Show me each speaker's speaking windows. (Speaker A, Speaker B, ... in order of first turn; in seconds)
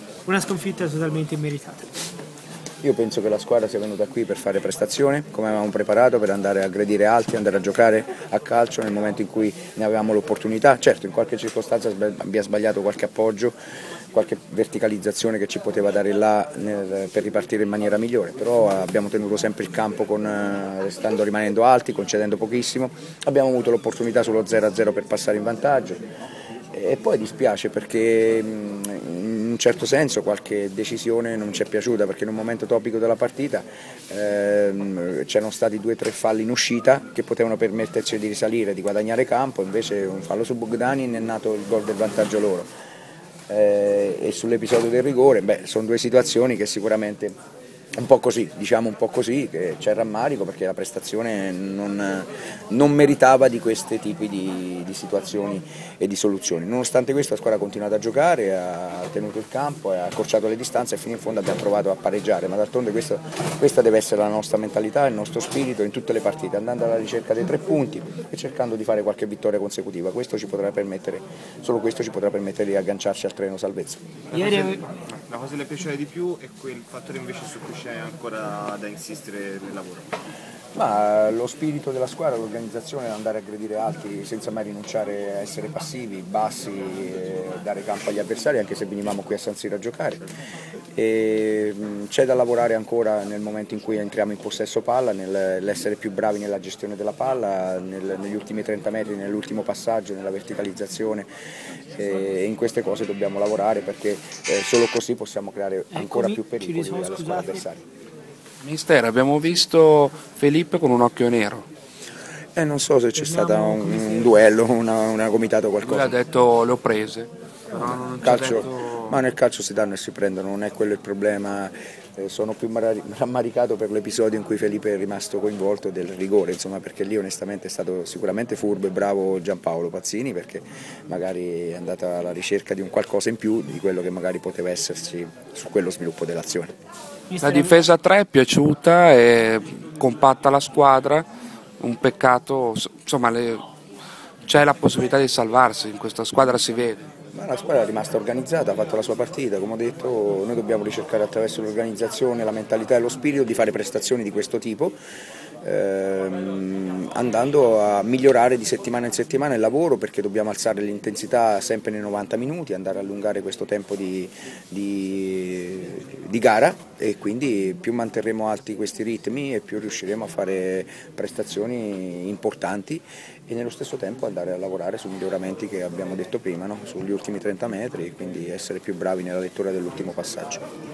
Speaker A: 0.2-1.9, 74.3-74.8, 105.9-107.6, 113.1-114.5, 137.3-137.8
Speaker B: 2.8-13.6, 14.1-26.0, 26.7-42.7, 43.5-47.3, 48.0-74.0, 80.7-90.2, 90.9-101.3, 101.9-107.8, 112.5-116.1, 118.2-136.7, 147.3-155.0, 155.6-180.6
Speaker C: 74.3-80.1
Speaker D: 108.6-111.7, 115.8-119.2, 137.4-141.3, 141.8-143.6, 144.4-147.1